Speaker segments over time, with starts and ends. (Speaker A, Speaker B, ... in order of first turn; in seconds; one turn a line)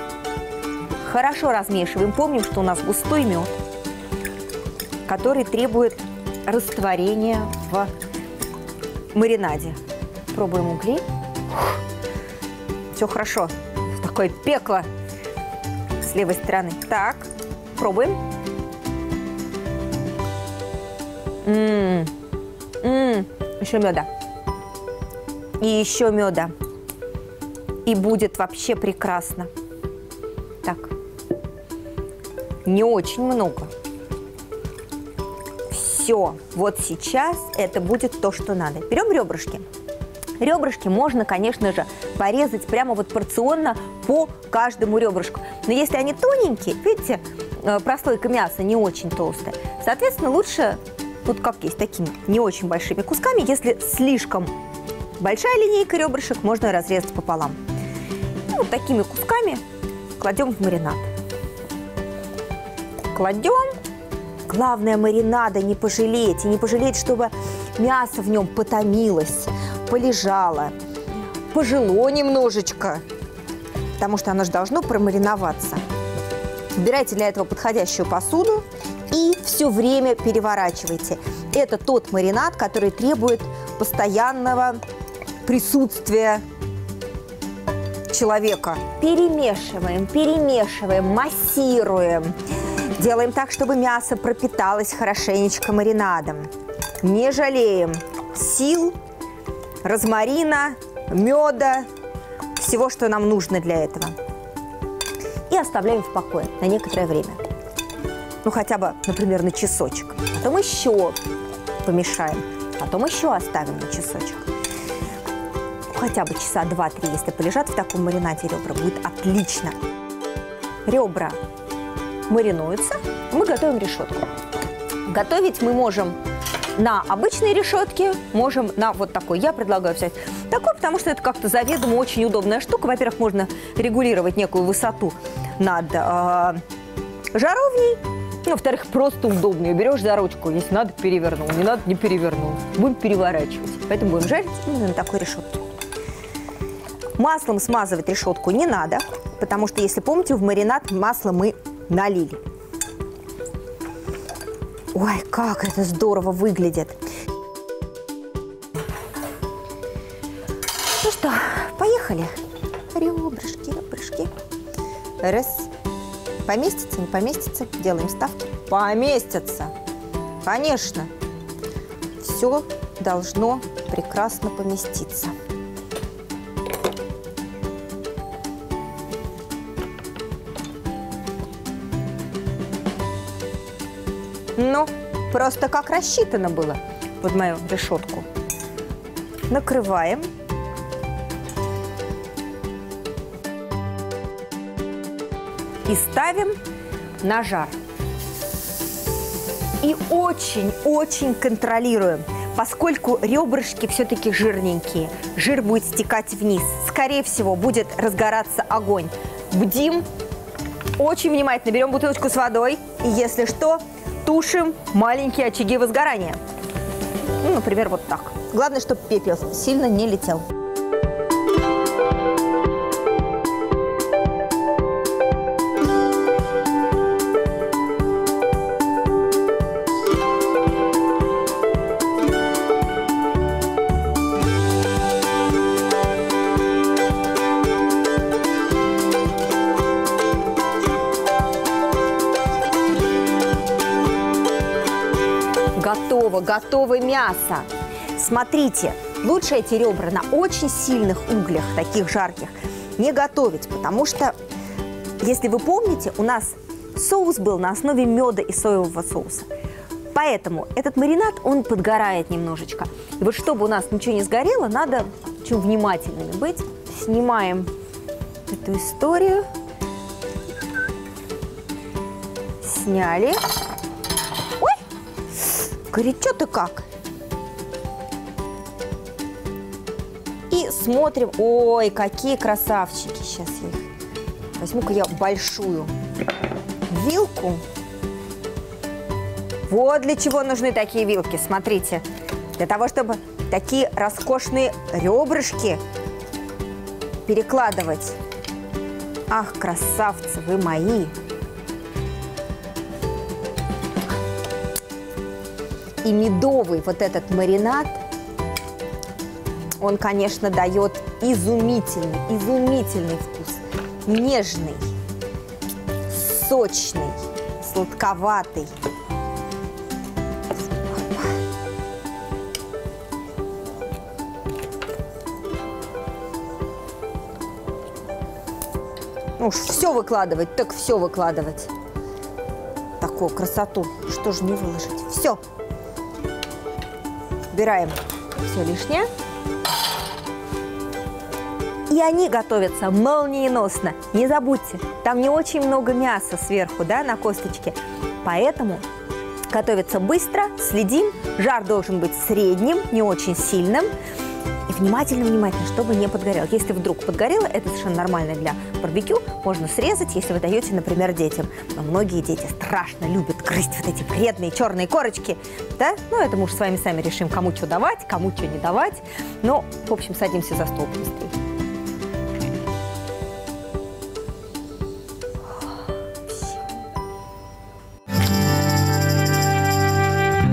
Speaker A: 1.0-3.5
Speaker A: 5.1-7.9
Speaker A: 9.1-9.8
Speaker A: 10.3-11.8
Speaker A: 12.9-14.9
Speaker A: 16.0-18.2
Speaker A: 21.4-22.1
Speaker A: 22.8-24.1
Speaker A: 25.6-26.5
Speaker A: 27.9-29.5
Speaker A: 30.6-30.9
Speaker A: 32.6-33.7
Speaker A: 35.7-39.7
Speaker A: 40.4-54.5
Speaker A: 55.2-57.6
Speaker A: 58.5-59.6
Speaker A: 60.2-61.1
Speaker A: 63.1-63.8
Speaker A: 64.5-70.8
Speaker A: 71.5-73.0
Speaker A: 74.0-75.8
Speaker A: 76.7-84.8
Speaker A: 85.5-86.4
Speaker A: 88.1-92.4
Speaker A: 93.0-96.5
Speaker A: 97.0-99.0
Speaker A: 99.8-101.9
Speaker A: 102.6-104.2
Speaker A: 105.5-107.4
Speaker A: 108.4-111.2
Speaker A: 111.8-114.5
Speaker A: 115.9-119.8
Speaker A: 120.9-121.4
Speaker A: 122.3-124.3
Speaker A: 125.1-126.2
Speaker A: 126.8-136.6
Speaker A: 137.3-145.7
Speaker A: 147.2-152.4
Speaker A: 154.9-157.0
Speaker A: 161.0-162.4
Speaker A: 162.9-164.3
Speaker A: 165.2-165.7
Speaker A: 166.4-169.7
Speaker A: 170.4-171.1
Speaker A: 172.2-175.3
Speaker A: 184.6-188.3
Speaker A: 189.5-190.3
Speaker A: 195.8-196.6
Speaker A: 197.2-197.8
Speaker A: 199.8-210.1
Speaker A: 211.0-216.4
Speaker A: 217.4-220.5
Speaker A: 245.8-254.3
Speaker A: 255.2-259.5
Speaker A: 260.1-267.7
Speaker A: 268.5-269.5
Speaker A: 272.6-273.4
Speaker A: 275.3-276.9
Speaker A: 280.5-283.9
Speaker A: 284.6-285.9
Speaker A: 286.9-287.6
Speaker A: 289.7-292.1
Speaker A: 292.6-295.8
Speaker A: 297.3-298.2
Speaker A: 299.3-301.1
Speaker A: 306.0-308.0
Speaker A: 309.8-314.9
Speaker A: 316.1-318.7
Speaker A: 320.6-321.4
Speaker A: 329.4-331.7
Speaker A: 333.0-335.4
Speaker A: 337.5-339.1
Speaker A: 341.9-348.9
Speaker A: 349.5-353.9
Speaker A: 354.7-371.4
Speaker A: 376.3-376.6